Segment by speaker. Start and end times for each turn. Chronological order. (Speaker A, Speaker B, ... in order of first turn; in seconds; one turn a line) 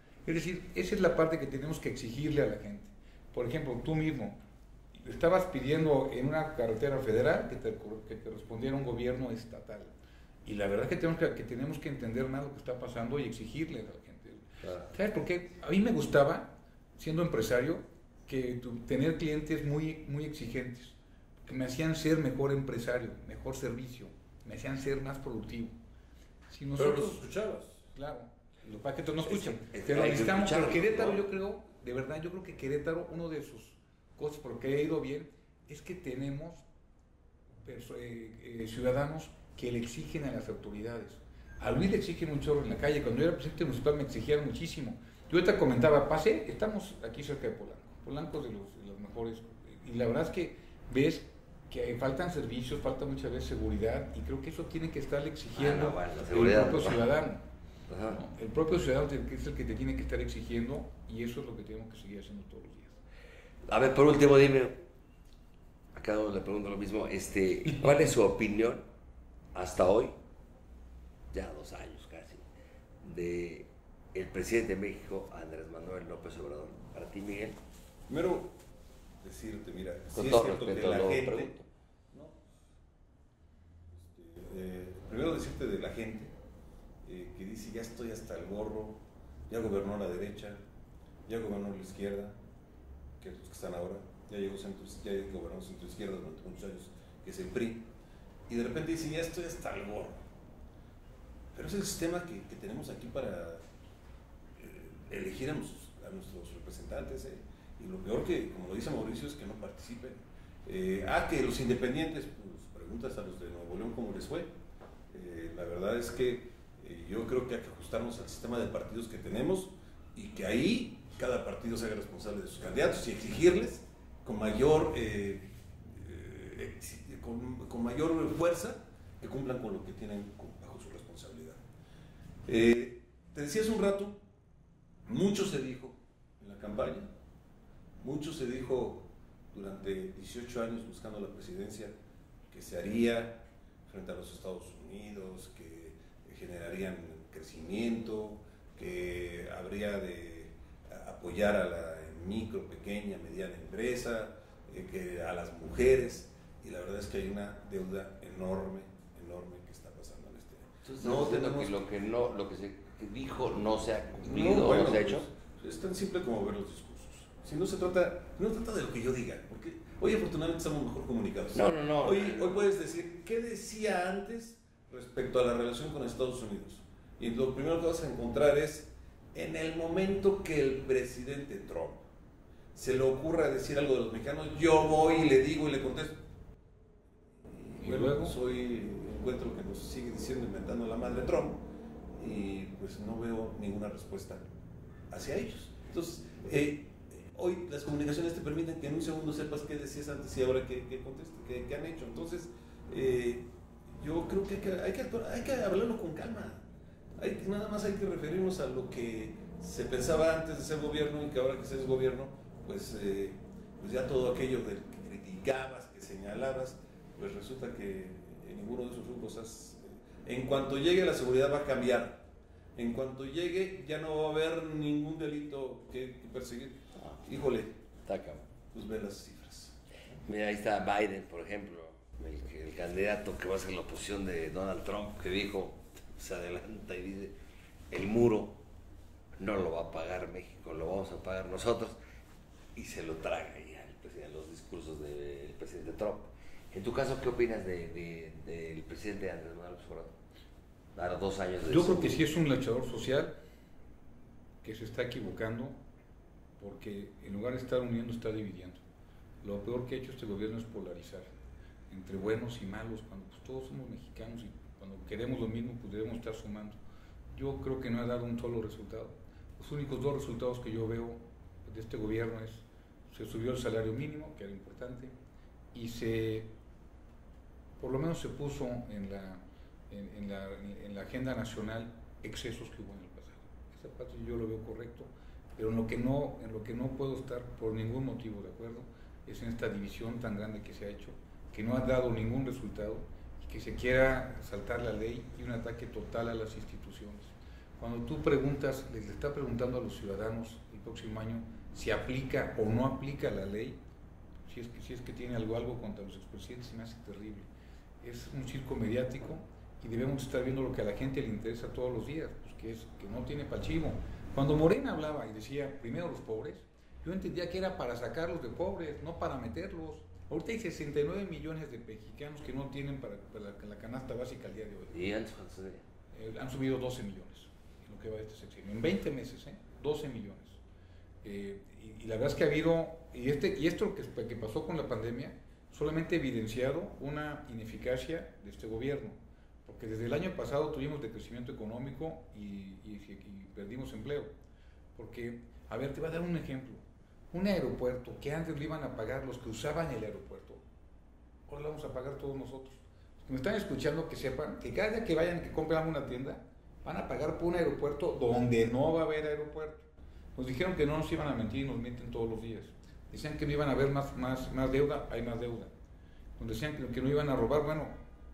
Speaker A: 0.2-4.4
Speaker A: 4.9-9.9
Speaker A: 10.4-25.8
Speaker A: 26.5-27.2
Speaker B: 26.8-27.8
Speaker A: 27.9-36.6
Speaker C: 29.2-31.2
Speaker A: 37.6-57.4
Speaker C: 55.5-57.0
Speaker C: 57.9-58.2
Speaker A: 58.1-63.0
Speaker C: 63.7-64.8
Speaker C: 65.9-68.8
Speaker C: 69.5-70.2
Speaker C: 71.3-72.4
Speaker C: 73.0-77.6
Speaker B: 78.1-78.5
Speaker B: 79.2-81.5
Speaker C: 80.1-81.7
Speaker B: 82.1-82.4
Speaker B: 83.9-86.3
Speaker B: 87.0-90.6
Speaker B: 91.3-92.4
Speaker B: 93.2-97.9
Speaker B: 98.5-100.2
Speaker B: 101.5-103.6
Speaker B: 104.6-114.5
Speaker B: 115.1-131.6
Speaker B: 132.5-134.2
Speaker B: 135.1-137.1
Speaker B: 138.0-141.9
Speaker B: 142.5-161.8
Speaker C: 160.8-165.3
Speaker B: 164.2-182.0
Speaker C: 171.5-172.6
Speaker B: 182.7-186.2
Speaker B: 187.5-191.6
Speaker A: 187.8-188.3
Speaker B: 192.2-194.5
Speaker B: 195.1-206.6
Speaker B: 207.2-227.8
Speaker C: 227.0-227.2
Speaker C: 228.1-228.5
Speaker B: 228.7-230.2
Speaker C: 230.2-237.3
Speaker C: 237.9-238.6
Speaker C: 239.4-242.0
Speaker C: 242.7-250.1
Speaker C: 250.9-252.2
Speaker A: 251.7-253.3
Speaker A: 254.6-255.8
Speaker A: 256.6-258.8
Speaker A: 259.4-261.3
Speaker A: 261.9-266.8
Speaker A: 267.3-275.1
Speaker A: 275.7-276.5
Speaker A: 277.8-303.8
Speaker A: 304.4-307.5
Speaker A: 308.0-324.9
Speaker C: 324.9-325.8
Speaker A: 326.1-330.6
Speaker A: 331.2-344.3
Speaker A: 344.9-350.6
Speaker A: 351.5-365.7
Speaker A: 366.4-368.0